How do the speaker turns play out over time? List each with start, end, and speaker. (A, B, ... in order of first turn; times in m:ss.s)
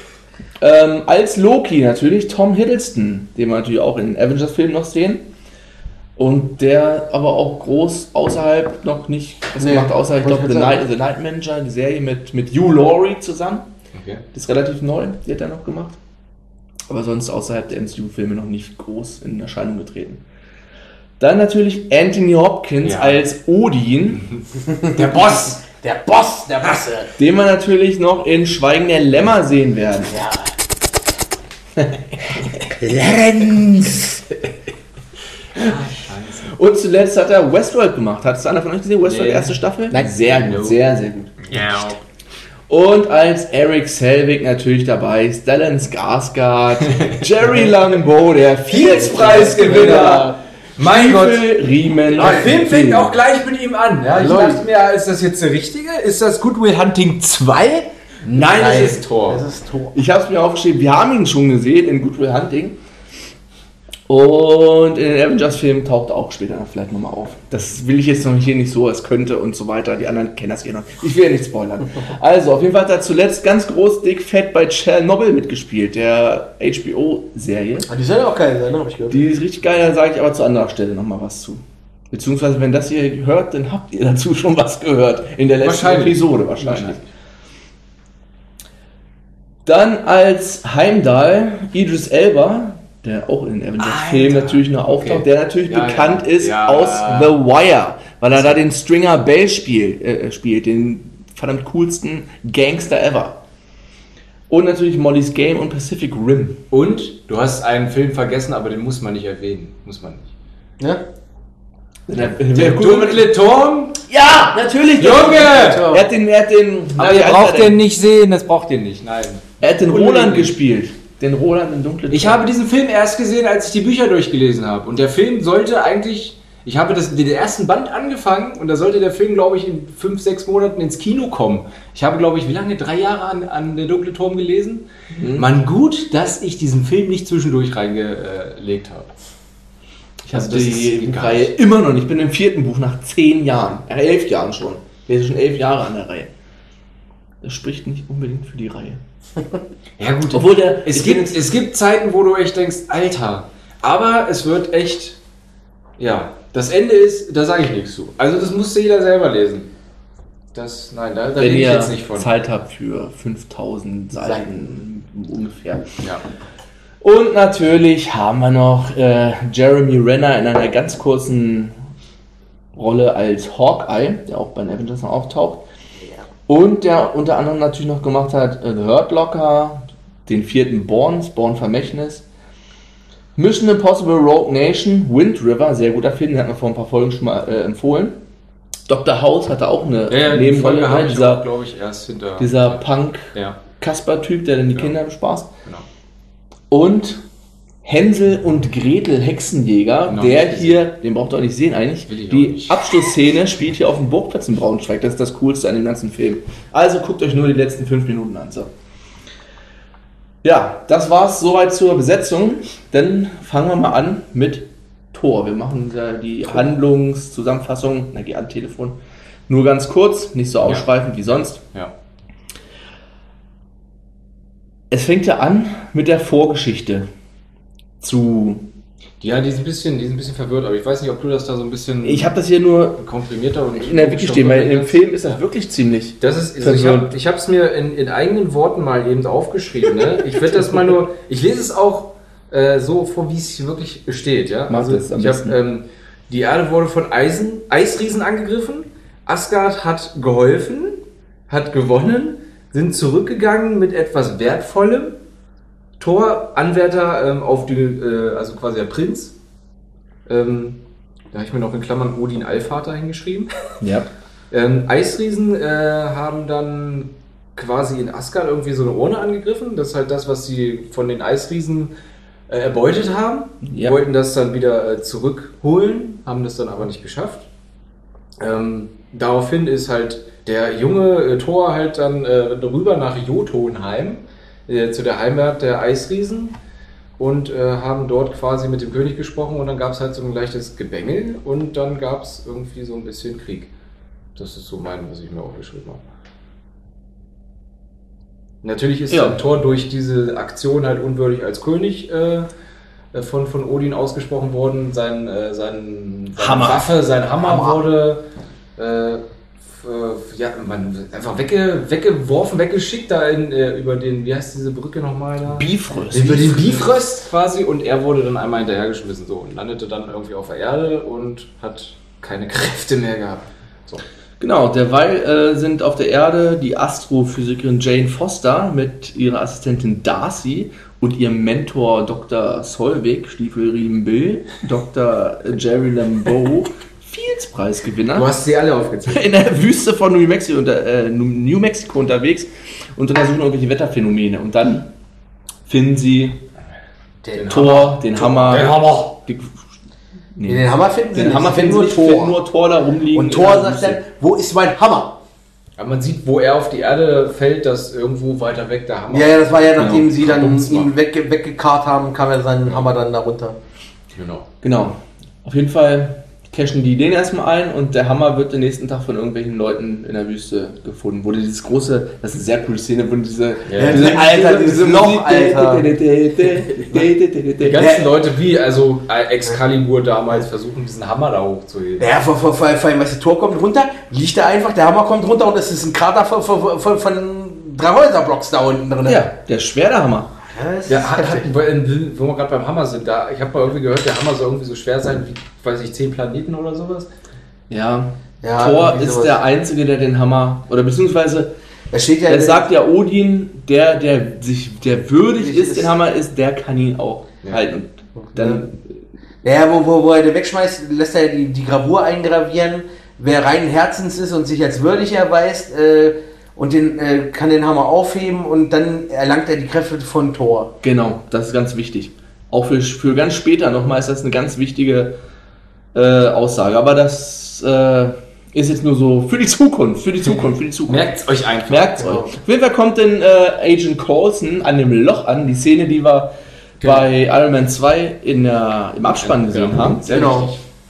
0:00.6-0:05.3 A
0:06.2-0:13.7 A
0:09.6-0:10.8 B
0:13.9-0:14.2 C
0:14.3-0:16.0 A
0:16.9-0:20.2 A
0:21.2-0:24.3 A
0:22.8-0:23.2 C
0:24.8-0:27.1 B
0:24.9-0:25.7 C
0:27.2-0:30.2 A
0:30.1-0:30.5 B
0:31.8-0:32.7 A
0:32.8-0:33.9 B
0:35.5-0:36.5 C
0:36.5-0:41.4 A
0:39.0-0:40.8 C
0:41.4-0:42.0 C
0:42.7-0:53.1 A
0:48.7-0:51.5 C
0:48.7-0:50.4 B
0:52.1-0:59.4 C
0:54.2-0:54.6 B
0:58.4-1:00.0 B
0:59.9-1:02.8 A
1:04.1-1:17.9 A
1:17.9-1:19.2 B
1:19.1-1:21.6 A
1:22.1-1:27.0 A
1:25.6-1:27.0 C
1:29.6-1:43.4 A
1:33.8-1:37.4 C
1:38.3-1:38.6 C
1:44.5-1:46.6 A
1:46.7-1:50.3 C
1:50.8-1:51.0 B
1:52.1-1:53.3 A
1:52.2-1:54.0 C
1:54.1-1:57.8 A
1:55.0-1:56.0 C
1:55.4-1:56.0 B
1:57.0-2:00.6 C
1:59.6-2:02.4 A
2:02.1-2:19.1 C
2:15.2-2:15.5 A
2:20.3-2:21.5 C
2:20.3-2:26.3 A
2:27.4-2:29.0 A
2:30.0-2:35.2 C
2:30.3-2:31.4 A
2:36.0-2:39.7 C
2:40.5-2:42.3 C
2:41.4-2:46.0 A
2:44.2-2:44.5 B
2:47.0-2:51.8 A
2:52.7-2:55.6 A
2:56.5-3:02.2 A
3:03.4-3:08.2 A
3:08.9-3:11.4 A
3:10.1-3:12.8 C
3:12.4-3:15.5 A
3:13.3-3:13.6 C
3:16.7-3:17.2 A
3:17.8-3:28.7 A
3:20.1-3:20.9 C
3:22.1-3:22.8 C
3:30.4-3:41.6 A
3:44.9-3:47.1 A
3:48.0-3:48.7 A
3:49.2-3:52.4 C
3:52.0-3:53.0 A
3:53.0-3:55.4 C
3:53.7-3:57.1 A
3:56.2-4:15.2 C
4:04.7-4:05.6 A
4:16.0-4:19.3 C
4:20.3-4:20.8 C
4:21.3-4:23.5 C
4:23.8-4:24.1 A
4:24.5-4:31.9 C
4:32.5-4:37.5 C
4:33.6-4:33.9 A
4:38.4-4:46.6 C
4:47.2-4:53.7 C
4:54.4-4:56.0 C
4:58.6-5:02.5 C
4:59.1-4:59.4 A
5:03.1-5:08.2 C
5:06.4-5:06.9 A
5:07.4-5:07.8 B
5:08.8-5:24.0 C
5:15.5-5:16.9 A
5:24.4-5:38.3 A
5:38.1-5:39.4 C
5:39.1-5:44.9 A
5:45.7-5:46.4 A
5:47.2-5:47.8 B
5:47.3-5:49.2 C
5:47.5-5:49.6 A
5:50.4-5:54.0 A
5:50.4-5:52.4 B
5:53.1-5:55.2 B
5:55.8-6:00.9 C
5:59.1-6:03.6 B
5:59.8-6:00.1 A
6:04.1-6:04.5 C
6:04.6-6:17.8 A
6:13.7-6:14.2 C
6:13.8-6:15.9 B
6:17.6-6:22.1 C
6:17.7-6:18.1 B
6:22.0-6:29.3 B
6:29.0-6:30.3 A
6:30.4-6:31.5 B
6:30.9-6:37.1 C
6:37.7-6:41.5 A
6:38.4-6:39.4 B
6:41.9-6:42.7 B
6:42.3-6:49.0 A
6:45.4-6:45.9 B
6:48.2-6:48.6 B
6:49.4-7:00.7 B
7:00.8-7:05.2 A
7:05.9-7:11.1 A
7:10.8-7:12.0 C
7:11.7-7:20.4 A
7:12.0-7:12.3 B
7:16.8-7:17.1 C
7:19.2-7:20.6 C
7:20.1-7:20.5 B